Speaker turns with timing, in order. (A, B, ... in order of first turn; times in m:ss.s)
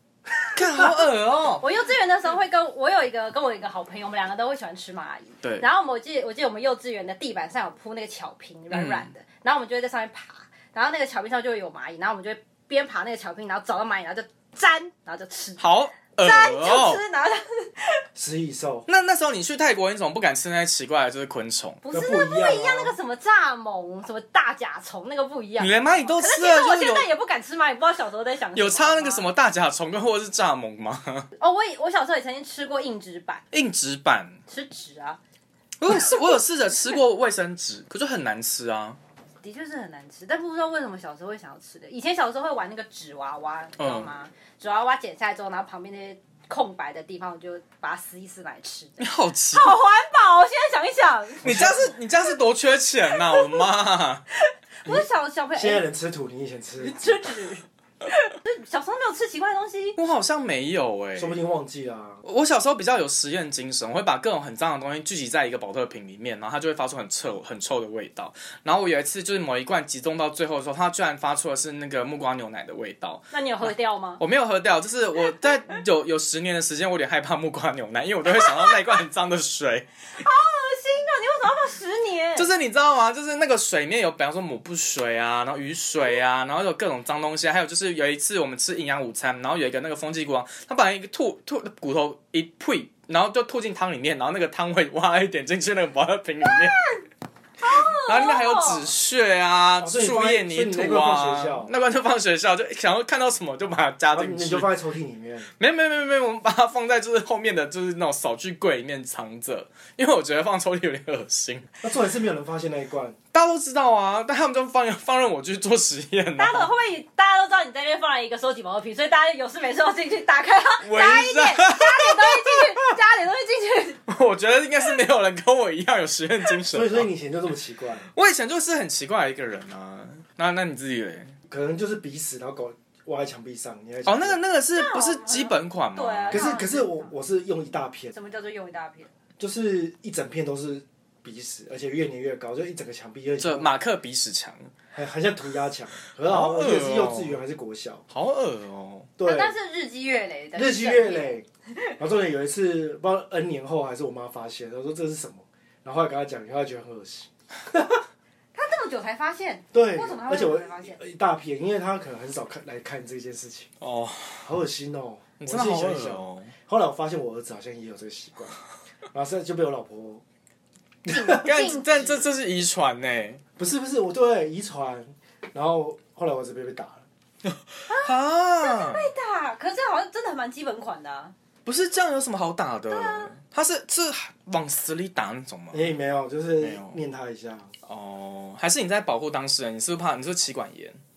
0:00.6-0:01.6 A
0:00.7-0:01.0 B
0:01.6-0:18.0 B
0:08.7-0:09.1 A
0:15.6-0:17.0 A
0:18.2-0:18.9 C
0:18.9-0:21.8 A
0:21.8-0:29.3 B
0:21.9-0:23.0 C
0:25.6-0:27.1 A
0:28.5-0:31.2 A
0:31.4-0:33.4 B
0:33.5-0:34.4 A
0:34.5-0:35.2 B
0:35.8-0:39.0 A
0:35.9-0:36.3 B
0:39.4-0:51.9 B
0:43.8-0:44.1 A
0:49.0-0:49.8 A
0:51.4-0:54.2 A
0:51.4-0:51.9 C
0:53.1-0:53.7 B
0:54.4-0:55.8 B
0:54.8-0:57.3 C
0:56.8-1:00.0 B
1:00.0-1:01.4 A
1:01.1-1:02.2 C
1:02.2-1:19.9 A
1:13.3-1:14.2 B
1:18.2-1:19.0 B
1:20.2-1:22.5 B
1:22.4-1:36.8 A
1:36.4-1:37.0 B
1:37.6-1:38.9 B
1:37.6-1:44.7 A
1:39.8-1:41.7 C
1:44.1-1:45.5 C
1:45.6-1:51.7 A
1:51.8-1:53.2 C
1:53.3-1:56.7 A
1:56.4-2:04.0 B
2:00.8-2:02.9 A
2:04.1-2:07.1 A
2:06.7-2:08.1 C
2:08.1-2:11.4 A
2:11.5-2:14.4 C
2:14.0-2:16.6 A
2:14.7-2:17.1 B
2:16.3-2:18.1 C
2:18.1-2:19.1 B
2:19.4-2:23.7 C
2:23.4-2:24.7 A
2:24.9-2:28.0 C
2:26.2-2:27.4 A
2:28.1-2:29.1 A
2:29.2-2:29.5 C
2:29.2-2:31.9 B
2:30.5-2:31.4 C
2:32.0-2:38.0 C
2:38.5-2:41.0 B
2:39.7-2:43.7 C
2:43.8-2:44.5 A
2:44.4-2:48.6 C
2:45.4-2:46.5 A
2:49.1-2:50.2 C
2:51.0-2:51.7 C
2:51.1-2:52.2 B
2:51.3-2:53.4 A
2:53.6-2:57.0 C
2:57.4-2:59.1 A
2:57.9-3:01.3 B
3:01.6-3:05.9 A
3:02.9-3:03.3 B
3:05.7-3:07.7 C
3:06.6-3:07.0 A
3:07.9-3:11.0 A